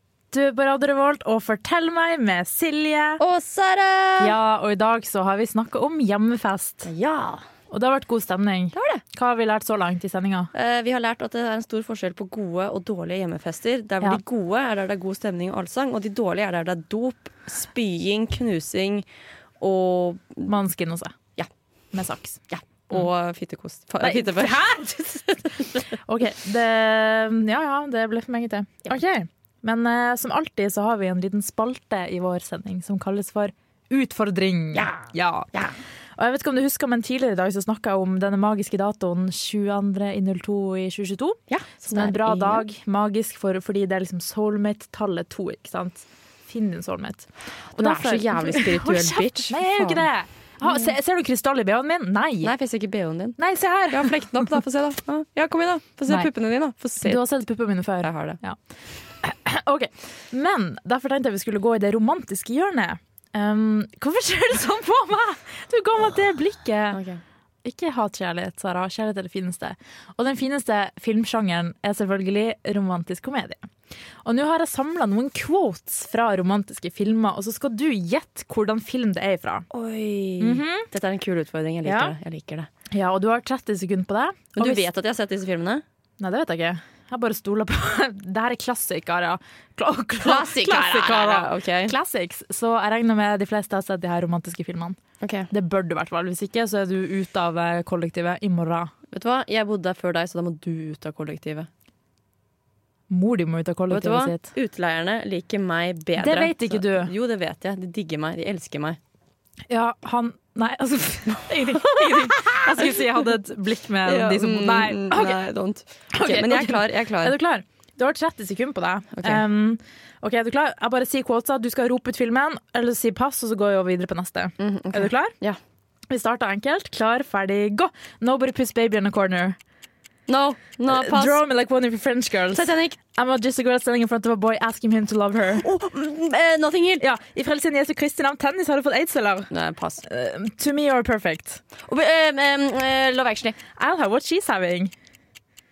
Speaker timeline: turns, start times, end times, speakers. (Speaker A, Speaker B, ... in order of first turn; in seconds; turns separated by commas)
Speaker A: 0.3-3.2, Speaker B: 3.2-4.4, Speaker A: 4.2-6.9, Speaker B: 6.8-7.5, Speaker A: 7.7-10.5, Speaker B: 8.7-9.0, Speaker B: 10.5-19.1, Speaker B: 19.6-20.5, Speaker A: 20.5-21.1, Speaker A: 21.9-22.4, Speaker B: 22.5-24.6, Speaker A: 24.0-35.5, Speaker B: 34.7-35.8, Speaker A: 36.2-52.5, Speaker B: 41.5-42.6, Speaker B: 47.7-50.0, Speaker B: 50.6-50.9, Speaker B: 52.4-53.4, Speaker A: 53.4-54.3, Speaker B: 53.9-57.2, Speaker A: 57.0-58.6, Speaker B: 58.0-58.4, Speaker A: 59.2-67.0, Speaker B: 66.9-67.2, Speaker A: 67.6-73.7, Speaker A: 74.2-79.7, Speaker B: 79.7-82.7, Speaker A: 80.4-80.9, Speaker A: 81.8-82.2, Speaker A: 82.9-84.8, Speaker B: 84.5-85.8, Speaker A: 86.2-95.0, Speaker B: 90.2-91.9, Speaker B: 95.2-95.5, Speaker A: 95.5-98.9, Speaker B: 99.1-101.7, Speaker A: 103.1-104.5, Speaker B: 103.9-109.0, Speaker A: 106.2-107.1, Speaker A: 109.7-115.4, Speaker B: 111.7-113.0, Speaker B: 114.0-117.4, Speaker A: 116.1-125.3, Speaker B: 119.2-119.4, Speaker B: 124.6-125.6, Speaker A: 126.1-129.6, Speaker B: 130.3-131.4, Speaker A: 130.9-135.7, Speaker B: 132.5-133.0, Speaker B: 135.6-137.0, Speaker A: 137.0-139.5, Speaker B: 139.5-140.0, Speaker A: 140.1-141.6, Speaker B: 141.8-143.6, Speaker A: 143.8-144.9